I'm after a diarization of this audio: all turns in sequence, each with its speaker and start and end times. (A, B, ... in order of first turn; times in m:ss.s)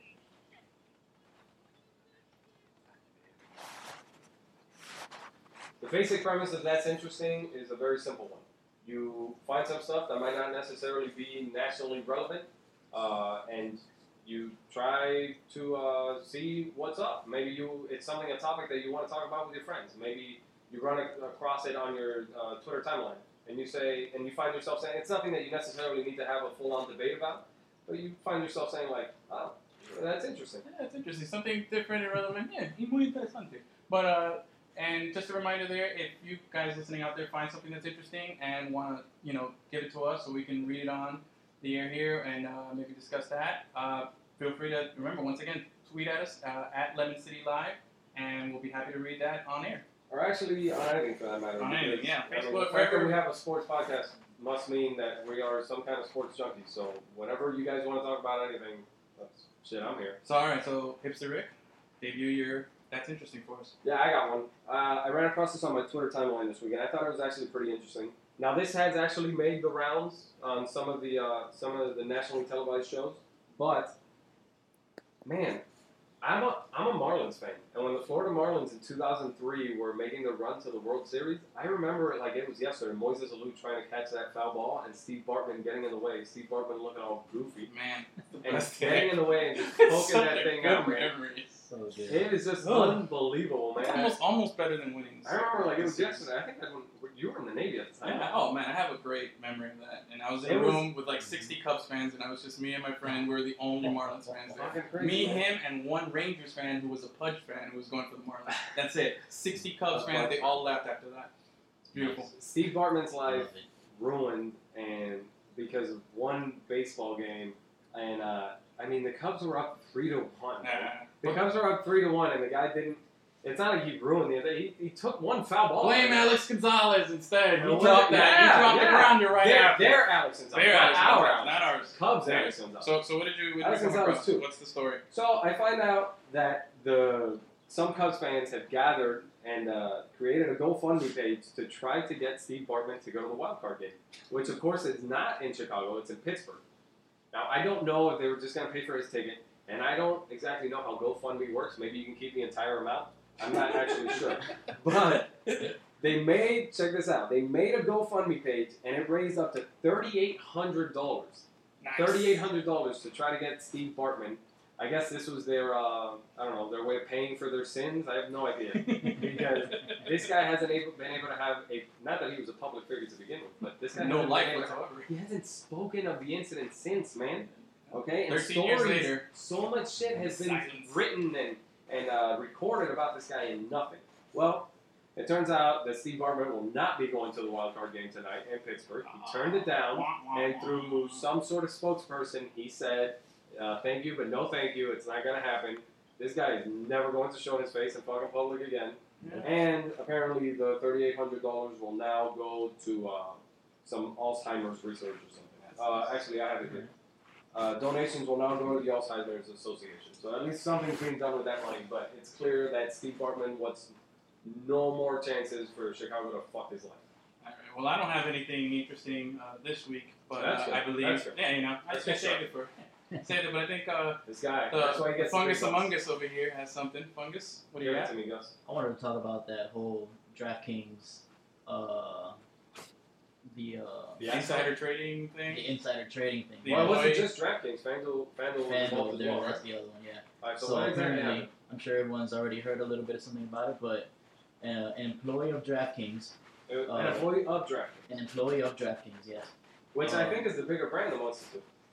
0:05.8-0:30.6 A
0:30.6-0:49.8 B
0:50.1-1:00.2 A
0:51.6-0:53.2 B
1:00.2-1:03.7 B
1:03.8-1:14.0 A
1:15.2-1:15.6 A
1:16.2-1:27.7 A
1:27.6-1:31.5 B
1:28.4-1:31.1 A
1:31.7-1:32.3 C
1:32.1-1:34.2 A
1:32.6-1:33.0 B
1:33.8-1:36.3 B
1:35.2-1:38.4 A
1:38.0-1:51.3 B
1:40.4-1:40.9 A
1:44.5-1:45.5 A
1:49.9-1:50.7 A
1:51.9-1:52.3 B
1:52.0-2:06.4 A
1:53.3-1:53.6 C
2:00.6-2:01.4 B
2:05.8-2:15.0 B
2:07.5-2:13.0 A
2:13.6-2:14.4 A
2:15.1-2:26.6 A
2:27.3-3:26.9 A
2:41.8-2:42.4 B
2:48.7-2:50.2 B
2:53.9-2:55.1 B
2:57.9-2:59.3 B
3:00.2-3:01.0 B
3:09.0-3:11.2 B
3:19.2-3:19.5 B
3:25.6-3:26.2 B
3:27.5-3:37.0 A
3:37.4-3:48.1 B
3:40.3-3:42.4 A
3:44.2-3:45.9 A
3:47.8-3:48.5 A
3:48.6-3:52.4 C
3:53.5-3:54.3 C
3:54.2-3:54.7 A
3:54.2-3:55.7 B
3:55.5-3:57.1 C
3:56.6-3:57.3 B
3:56.6-3:59.6 A
3:58.6-4:04.1 C
4:00.4-4:01.5 A
4:04.6-4:06.3 C
4:06.7-4:08.1 A
4:06.9-4:07.3 C
4:08.1-4:09.5 C
4:09.9-4:11.6 A
4:10.0-4:10.4 B